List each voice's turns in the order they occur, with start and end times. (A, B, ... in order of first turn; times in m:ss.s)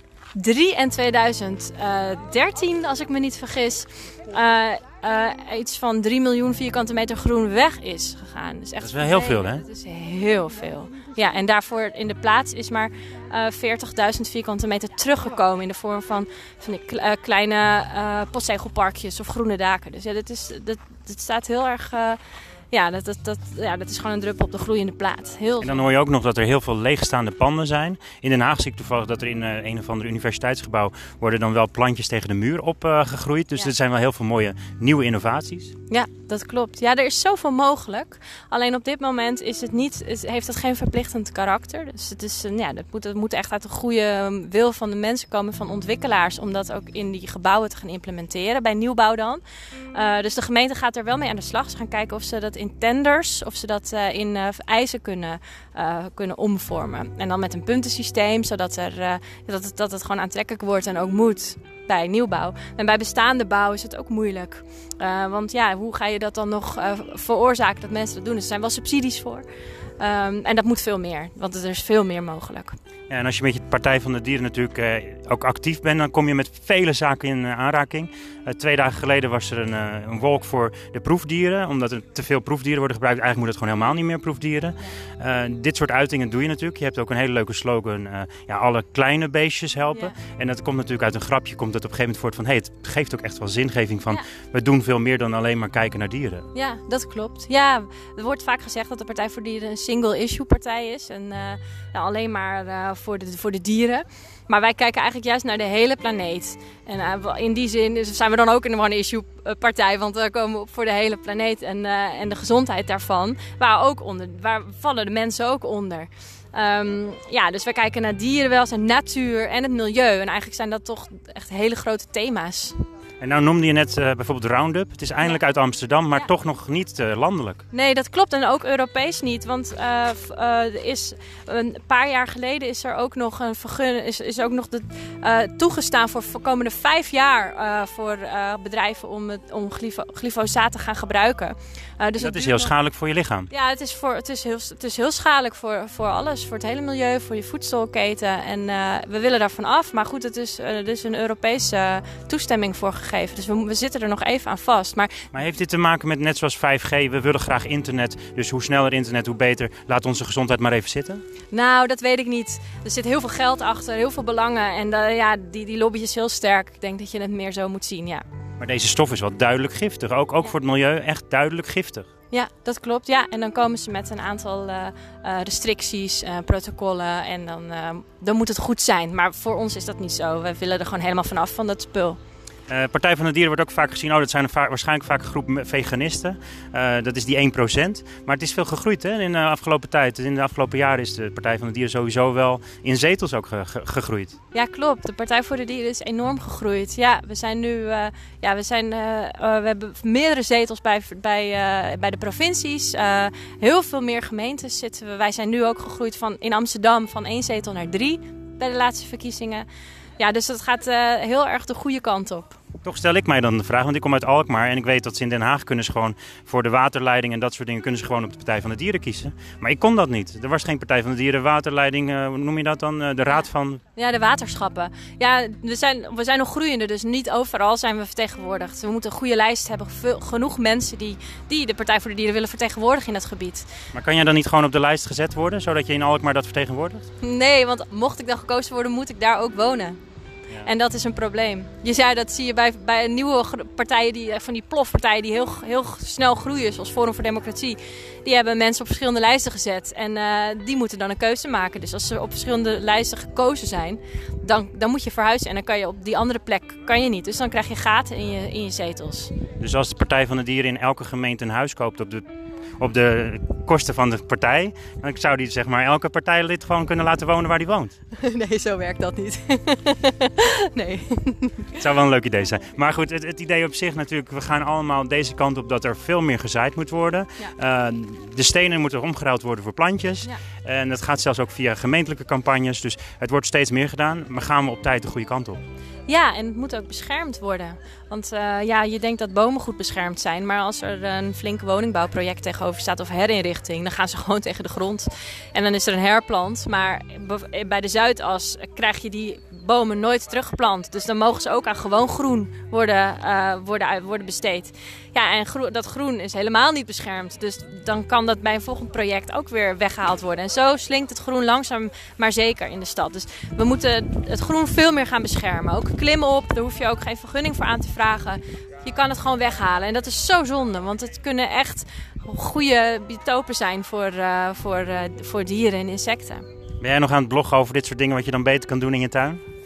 0:00.3-0:22.2 A
0:08.8-0:09.6 B
0:22.7-0:25.8 A
0:25.6-0:35.7 B
0:35.9-0:49.4 A
0:49.9-1:09.4 A
1:10.0-1:12.8 A
1:13.1-1:36.5 B
1:36.5-2:02.8 A
2:03.2-2:07.6 B
2:07.7-2:22.7 A
2:22.2-2:23.5 B
2:23.5-2:35.3 A
2:35.3-2:41.2 B
2:41.5-2:48.2 A
2:48.6-2:52.1 B
2:52.3-3:02.2 A
3:02.7-3:14.3 B
3:14.5-3:29.6 A
3:30.2-3:32.6 A
3:32.8-3:43.8 B
3:44.0-3:53.7 A
3:53.9-3:57.0 B
3:57.2-4:00.0 A
4:00.6-4:19.3 A
4:19.6-4:22.2 B
4:22.8-4:27.9 B
4:28.2-4:31.8 A
4:31.8-4:45.6 B
4:46.1-5:26.4 A
5:26.8-5:29.4 B